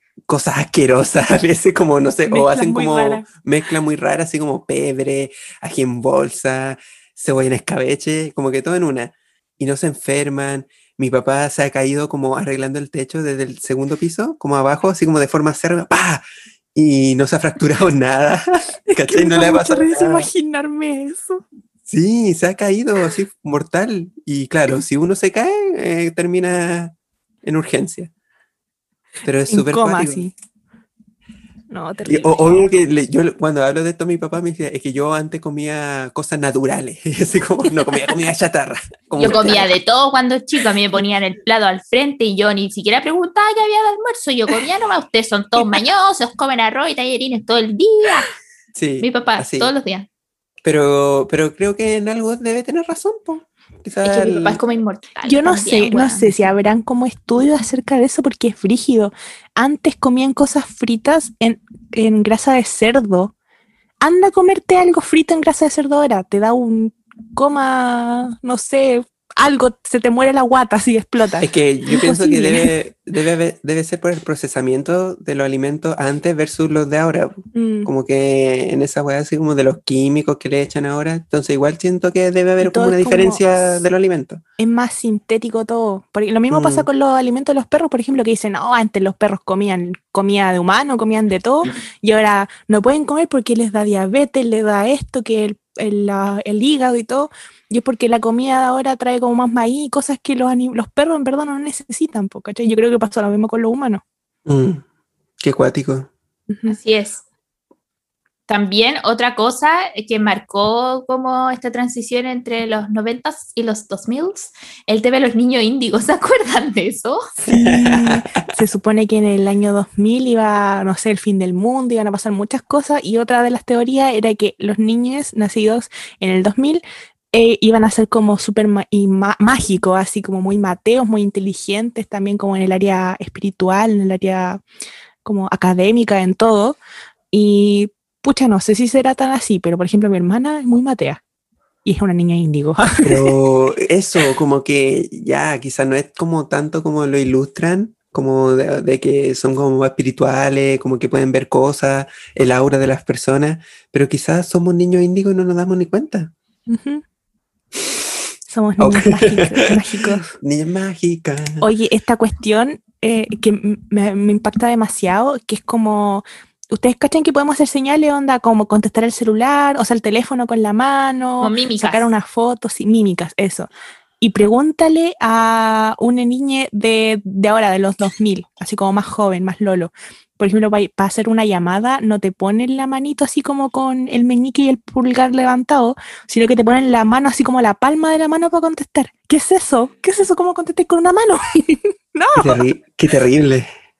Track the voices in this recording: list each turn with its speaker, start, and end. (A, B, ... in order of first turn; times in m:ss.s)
0:00.3-0:16.2 A
0:02.3-0:03.3 B
0:16.8-0:20.3 A
0:18.9-0:21.4 B
0:21.9-0:28.1 A
0:29.2-0:30.3 A
0:29.5-0:30.3 B
0:31.7-0:32.5 B
0:32.1-0:39.7 A
0:39.2-0:48.3 C
0:48.8-0:49.7 A
0:49.0-0:50.1 C
0:50.6-0:54.6 A
0:54.0-0:56.3 C
0:55.2-1:03.3 B
1:04.0-1:12.7 B
1:11.4-1:24.4 A
1:17.5-1:17.9 B
1:22.6-1:23.8 B
1:24.6-1:44.0 B
1:26.5-1:26.9 A
1:44.5-1:44.8 A
1:45.4-1:46.1 A
1:46.5-1:46.8 B
1:46.7-1:47.2 C
1:48.5-1:57.2 C
1:57.4-2:06.8 B
1:57.5-1:58.2 A
2:07.3-2:14.6 B
2:15.2-2:16.8 B
2:17.3-2:21.2 B
2:21.8-2:23.3 B
2:23.0-2:36.3 A
2:36.7-2:37.0 B
2:38.5-2:40.3 B
2:38.8-2:41.7 A
2:41.6-2:53.7 B
2:51.4-2:52.1 C
2:54.2-3:12.6 B
3:12.4-3:13.7 A